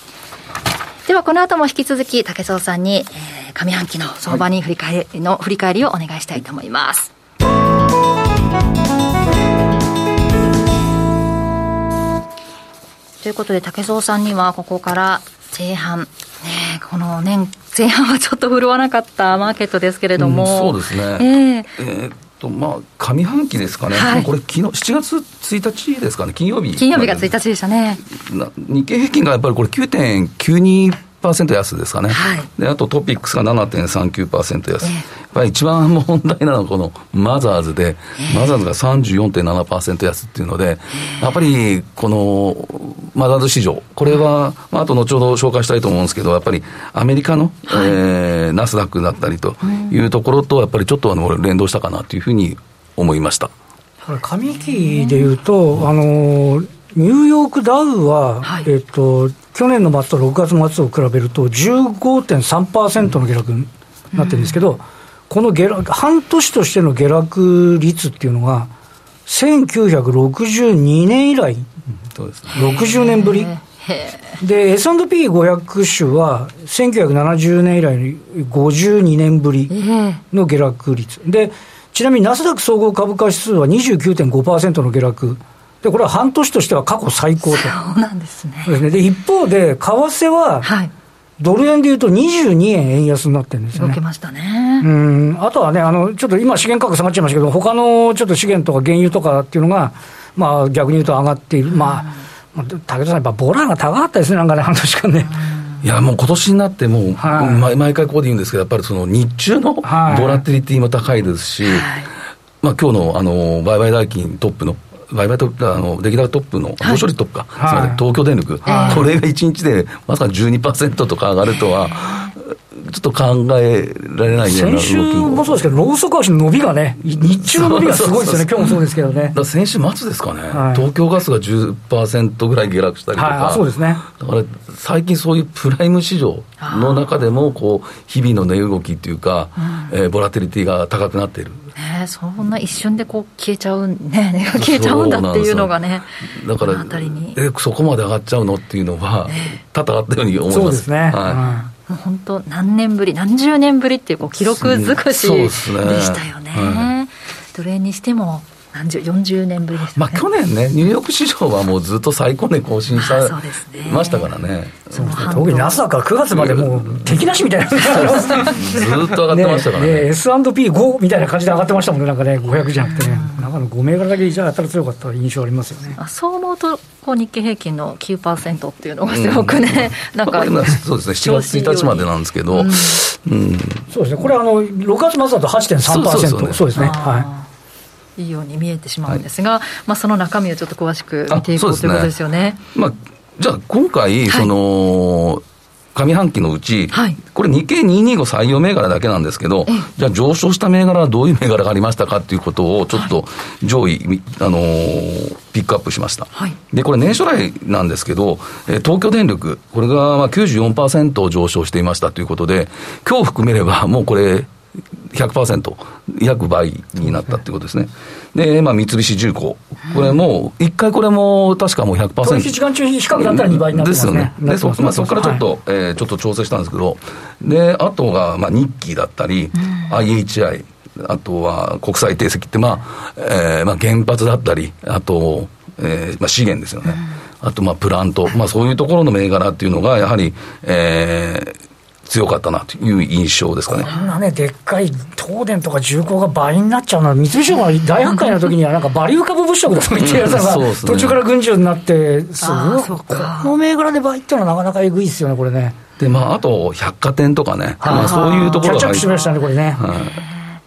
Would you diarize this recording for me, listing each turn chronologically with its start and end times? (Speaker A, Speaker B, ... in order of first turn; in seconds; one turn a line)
Speaker A: 1.1-7.1
Speaker A: 13.2-21.7
Speaker B: 20.2-27.3
Speaker A: 23.9-24.3
Speaker A: 26.8-28.0
Speaker B: 28.1-53.5
Speaker A: 32.1-32.5
Speaker A: 47.7-48.0
Speaker C: 54.1-68.7
Speaker A: 54.8-55.3
Speaker A: 58.4-58.7
Speaker A: 64.1-64.6
Speaker C: 69.2-71.7
Speaker B: 72.1-72.6
Speaker A: 72.5-74.4
Speaker C: 72.5-73.5
Speaker C: 74.4-79.7
Speaker A: 79.7-80.2
Speaker C: 80.3-87.7
Speaker A: 87.5-88.8
Speaker C: 88.7-90.7
Speaker A: 90.6-90.9
Speaker C: 91.4-94.0
Speaker A: 93.7-94.9
Speaker C: 94.8-105.4
Speaker A: 101.7-102.2
Speaker A: 105.4-105.8
Speaker B: 105.8-111.9
Speaker C: 107.2-107.7
Speaker C: 109.8-110.4
Speaker A: 111.6-112.1
Speaker B: 112.6-125.6
Speaker C: 117.6-118.0
Speaker A: 118.7-119.1
Speaker C: 118.8-119.0
Speaker C: 124.4-129.4
Speaker B: 127.1-128.8
Speaker B: 129.3-141.7
Speaker C: 130.5-130.9
Speaker C: 133.1-134.0
Speaker A: 136.6-137.1
Speaker A: 139.6-139.9
Speaker A: 141.8-147.4
Speaker B: 144.5-151.4
Speaker A: 149.3-149.6
Speaker C: 150.5-151.7
Speaker A: 151.4-160.2
Speaker B: 154.6-156.9
Speaker B: 159.9-165.4
Speaker A: 162.9-164.3
Speaker C: 164.9-176.0
Speaker A: 164.9-165.8
Speaker B: 166.3-167.2
Speaker B: 167.8-170.1
Speaker A: 172.8-173.4
Speaker A: 175.9-183.0
Speaker B: 179.1-183.9
Speaker C: 183.9-187.3
Speaker B: 185.9-186.9
Speaker A: 186.7-187.5
Speaker A: 188.2-192.6
Speaker B: 191.3-192.1
Speaker B: 192.7-222.5
Speaker A: 196.9-197.2
Speaker C: 222.2-225.4
Speaker B: 223.1-243.9
Speaker A: 229.6-229.9
Speaker C: 243.7-255.8
Speaker A: 248.1-248.4
Speaker B: 249.9-251.2
Speaker A: 252.4-253.5
Speaker B: 256.0-259.1
Speaker C: 257.8-259.9
Speaker A: 257.9-259.3
Speaker B: 259.8-260.2
Speaker A: 259.9-260.5